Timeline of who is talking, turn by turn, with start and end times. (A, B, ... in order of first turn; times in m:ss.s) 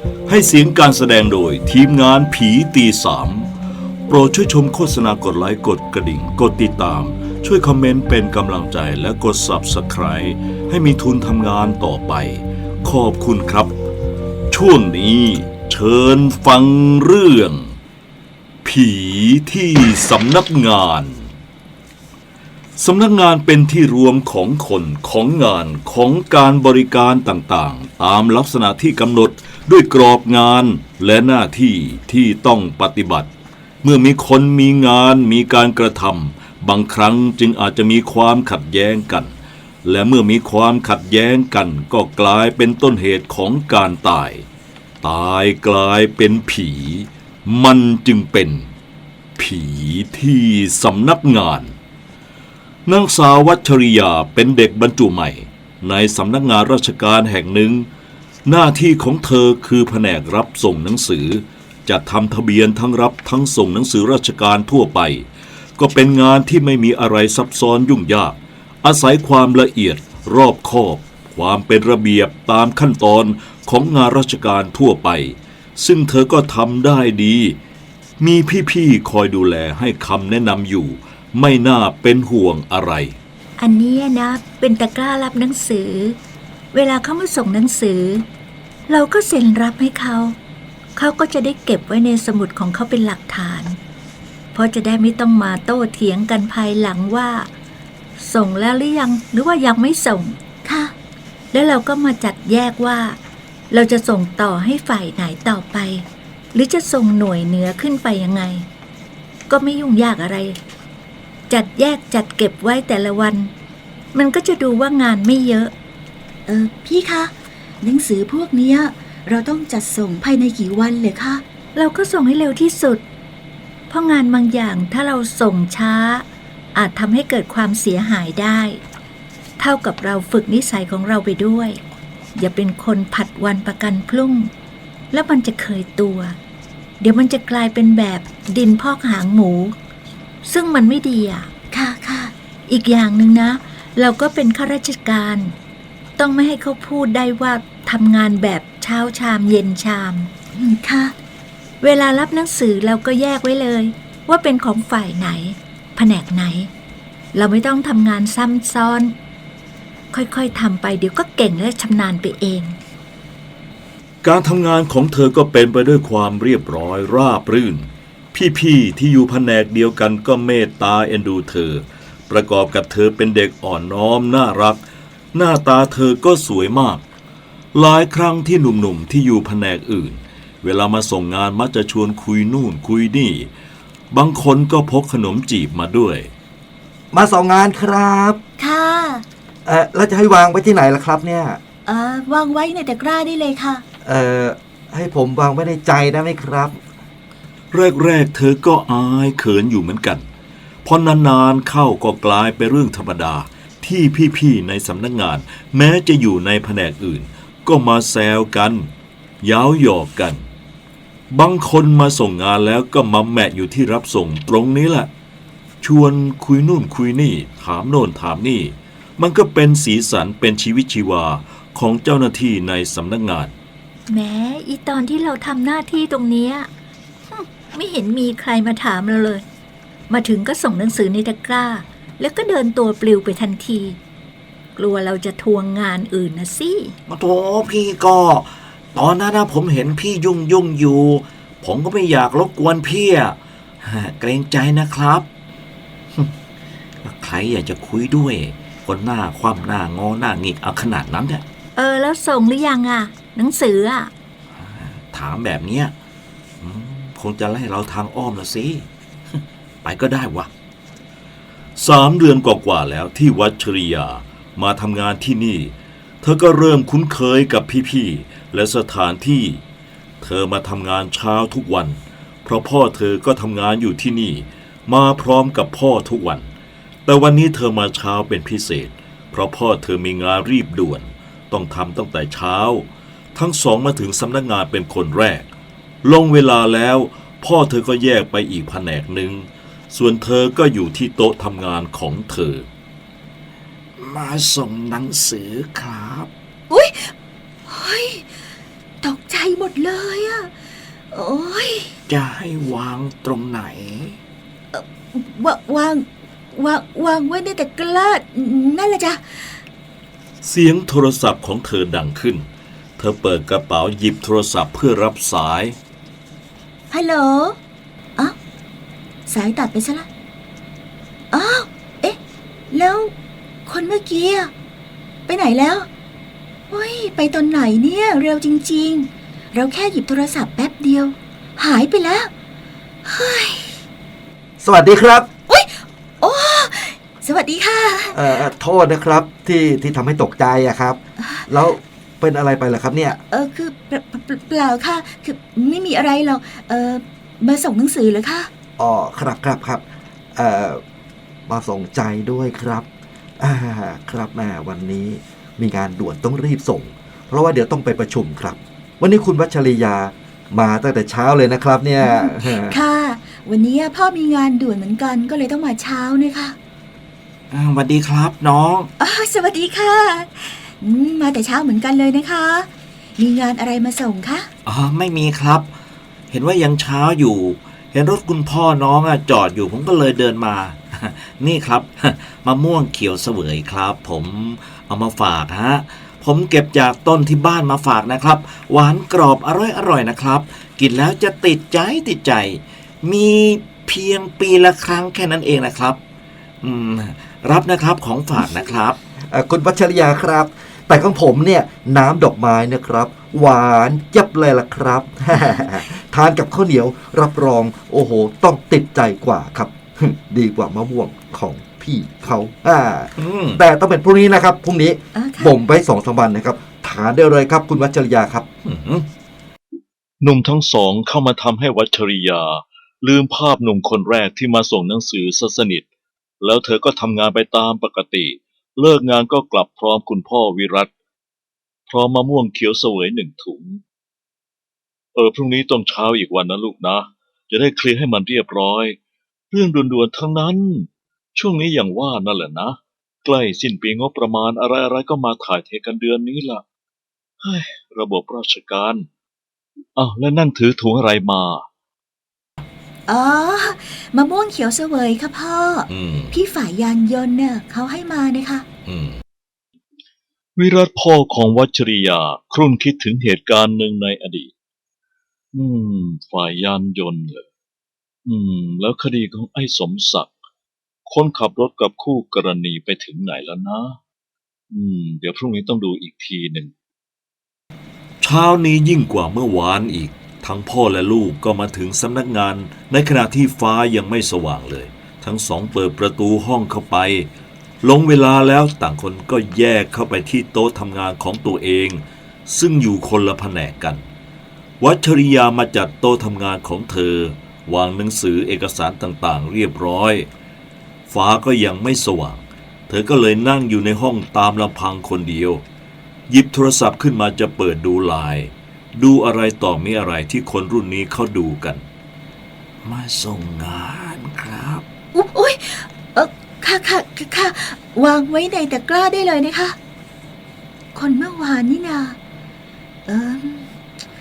0:00.3-0:03.5 A
0:04.1-0:13.7 A
0:14.5-0:17.7 A
0:18.6-0:21.3 A
0:22.8-0:33.3 A
0:33.8-0:44.4 A
0:45.0-0:48.7 A
0:49.4-0:51.7 A
0:52.8-0:57.9 A
0:58.4-1:05.2 A
1:05.8-1:17.6 A
1:18.2-1:23.1 A
1:23.6-1:26.2 B
1:26.7-1:28.2 B
1:28.9-1:30.4 B
1:31.0-1:33.8 B
1:34.5-1:37.5 B
1:38.2-1:40.4 B
1:40.6-1:40.9 C
1:41.5-1:43.2 B
1:43.7-1:48.6 B
1:49.5-1:50.6 B
1:51.5-1:53.5 B
1:54.1-1:55.7 B
1:56.5-2:01.4 C
2:01.8-2:03.0 B
2:03.9-2:08.8 B
2:09.6-2:11.8 B
2:12.3-2:14.5 B
2:15.1-2:16.3 B
2:17.0-2:19.7 B
2:20.4-2:21.5 B
2:21.7-2:22.3 C
2:22.7-2:25.5 B
2:26.2-2:30.3 B
2:30.5-2:31.1 C
2:31.8-2:36.7 B
2:37.3-2:39.1 B
2:40.1-2:42.8 B
2:44.2-2:54.8 A
2:55.3-2:57.0 A
2:57.7-3:03.5 A
3:04.1-3:06.3 A
3:07.1-3:08.4 D
3:08.6-3:09.2 C
3:09.6-3:11.6 D
3:11.8-3:13.8 C
3:14.0-3:16.8 D
3:17.7-3:20.2 A
3:20.8-3:28.9 A
3:29.4-3:30.4 A
3:31.3-3:35.1 A
3:35.8-3:43.5 A
3:44.1-3:46.7 B
3:47.3-3:49.4 B
3:50.1-3:54.0 B
3:54.8-3:56.9 B
3:57.1-4:05.2 E
4:07.0-4:11.4 E
4:11.8-4:14.1 B
4:14.5-4:15.9 E
4:16.6-4:18.9 E
4:19.8-4:20.5 E
4:21.8-4:29.6 A
4:30.2-4:36.5 A
4:37.0-4:45.4 A
4:46.0-4:52.7 A
4:54.0-4:56.3 E
4:56.7-4:57.1 C
4:57.7-4:58.3 C
4:59.0-5:00.5 C
5:01.1-5:01.9 C
5:02.1-5:04.2 E
5:04.7-5:09.6 C
5:10.4-5:12.5 A
5:13.0-5:15.8 A
5:16.9-5:17.6 C
5:19.3-5:20.1 C
5:21.3-5:22.2 C
5:22.7-5:23.1 C
5:23.6-5:24.5 C
5:25.3-5:25.9 C
5:26.7-5:32.3 C
5:33.0-5:33.8 C
5:34.6-5:35.3 D
5:35.5-5:38.2 C
5:38.1-5:43.2 D
5:41.2-5:41.4 C
5:43.3-5:48.5 C
5:48.8-5:49.8 D
5:50.4-5:50.8 D
5:51.5-5:52.8 D
5:53.4-6:02.8 D
6:02.0-6:06.6 C
6:07.5-6:08.9 E
6:09.0-6:14.5 C
6:14.6-6:15.7 E
6:16.3-6:36.0 E
6:36.6-6:39.0 E
6:39.3-6:58.5 D
6:45.3-6:45.7 C
6:53.2-6:53.6 A
6:55.1-6:55.5 C
6:58.6-6:59.0 A
7:00.2-7:05.8 A
7:06.4-7:10.9 A
7:11.9-7:13.8 A
7:15.1-7:19.0 A
7:19.5-7:26.6 A
7:27.4-7:29.1 A
7:30.0-7:31.6 A
7:33.1-7:38.6 C
7:35.9-7:36.3 A
7:38.9-7:39.2 A
7:40.6-7:44.5 A
7:45.5-7:47.4 A
7:48.2-7:50.3 A
7:51.1-7:54.0 A
7:54.7-7:56.7 A
7:58.2-8:07.3 A
8:07.8-8:14.0 A
8:14.8-8:20.3 A
8:21.1-8:25.6 A
8:26.3-8:31.8 A
8:32.8-8:34.8 E
8:35.1-8:39.8 C
8:40.9-8:42.2 C
8:43.1-8:43.7 C